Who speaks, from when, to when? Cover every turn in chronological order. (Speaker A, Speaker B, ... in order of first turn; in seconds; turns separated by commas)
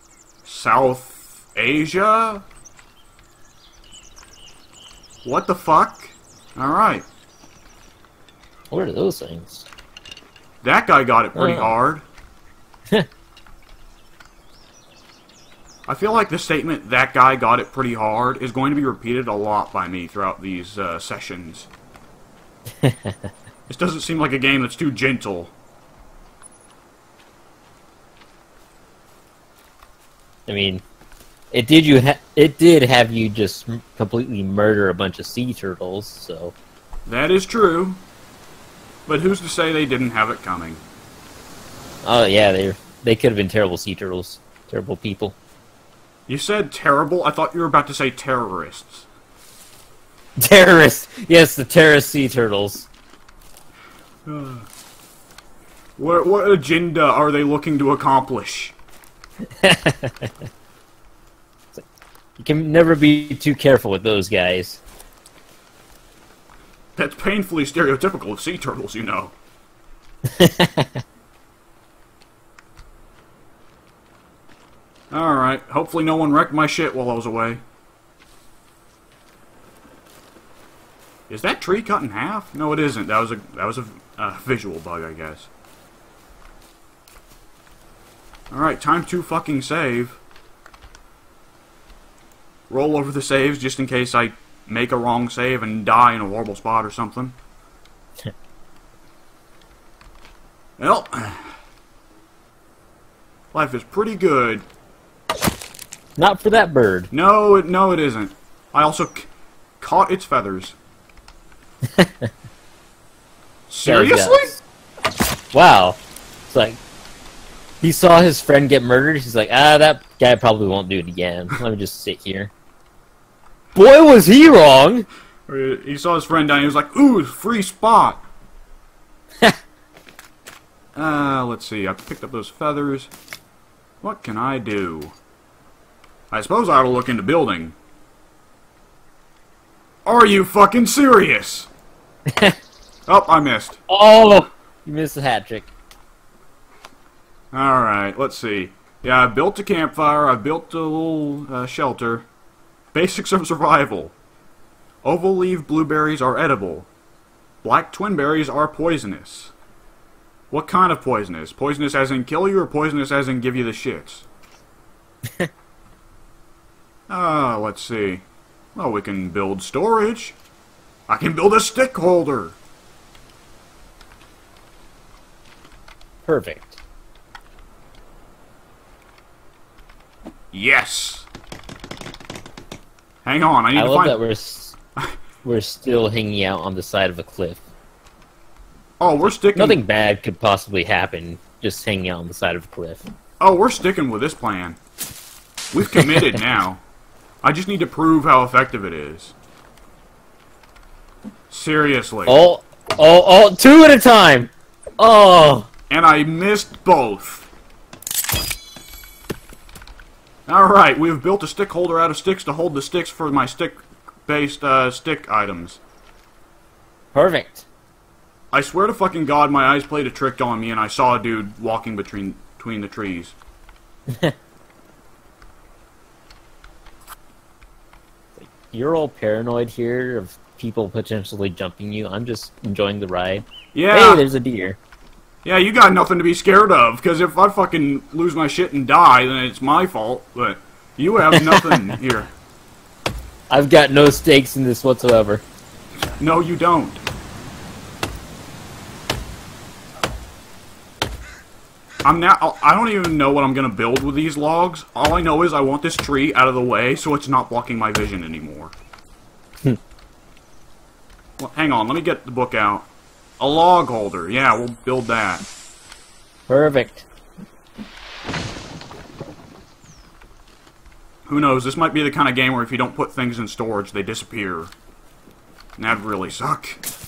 Speaker A: 0.5-2.4, Speaker A: 5.2-7.1, Speaker B: 8.7-9.7, Speaker A: 10.6-12.0, Speaker B: 11.3-11.7, Speaker A: 15.9-21.7, Speaker B: 22.8-23.3, Speaker A: 23.7-25.5, Speaker B: 30.5-30.8, Speaker B: 31.5-36.5, Speaker A: 37.1-38.0, Speaker A: 39.1-40.8, Speaker B: 42.0-45.4, Speaker A: 46.3-49.1, Speaker B: 50.4-52.9, Speaker A: 54.3-54.7, Speaker A: 56.0-58.8, Speaker B: 59.6-60.3, Speaker B: 62.4-64.8, Speaker A: 67.0-69.3, Speaker B: 70.2-71.0, Speaker A: 75.1-77.6, Speaker A: 81.3-85.5, Speaker A: 88.5-90.2, Speaker A: 92.7-97.4, Speaker A: 100.8-101.5, Speaker A: 103.5-104.7, Speaker B: 106.2-107.1, Speaker A: 107.1-109.3, Speaker A: 109.8-110.8, Speaker B: 111.9-112.3, Speaker A: 113.7-114.5, Speaker B: 113.8-114.6, Speaker B: 115.5-116.8, Speaker B: 117.8-122.5, Speaker B: 123.8-125.1, Speaker A: 125.5-128.2, Speaker A: 130.9-133.1, Speaker A: 134.0-135.2, Speaker A: 136.3-137.8, Speaker A: 140.1-141.7, Speaker B: 142.3-142.6, Speaker A: 143.1-143.8, Speaker B: 143.9-145.7, Speaker A: 147.5-152.3, Speaker A: 152.9-154.1, Speaker A: 155.0-156.9, Speaker A: 157.6-159.5, Speaker A: 160.5-164.3, Speaker A: 167.1-168.2, Speaker A: 168.8-170.4, Speaker A: 171.1-172.6, Speaker B: 176.3-176.8, Speaker A: 180.5-181.3, Speaker A: 183.2-184.2, Speaker B: 183.8-184.8, Speaker B: 185.4-187.6, Speaker A: 189.0-189.8, Speaker B: 189.4-193.1, Speaker A: 193.4-194.8, Speaker A: 195.7-196.8, Speaker A: 197.4-199.3, Speaker A: 201.5-202.3, Speaker B: 202.3-205.7, Speaker A: 205.9-207.5, Speaker A: 210.5-215.8, Speaker B: 217.1-217.7, Speaker A: 218.5-223.3, Speaker B: 224.1-224.3, Speaker B: 228.4-234.8, Speaker A: 233.7-234.2, Speaker A: 235.4-242.3, Speaker B: 241.3-241.8, Speaker B: 243.5-245.4, Speaker A: 246.2-247.0, Speaker A: 252.1-258.7, Speaker A: 261.4-262.9, Speaker A: 263.4-265.4, Speaker B: 266.5-267.1, Speaker A: 271.3-274.7, Speaker A: 275.8-276.8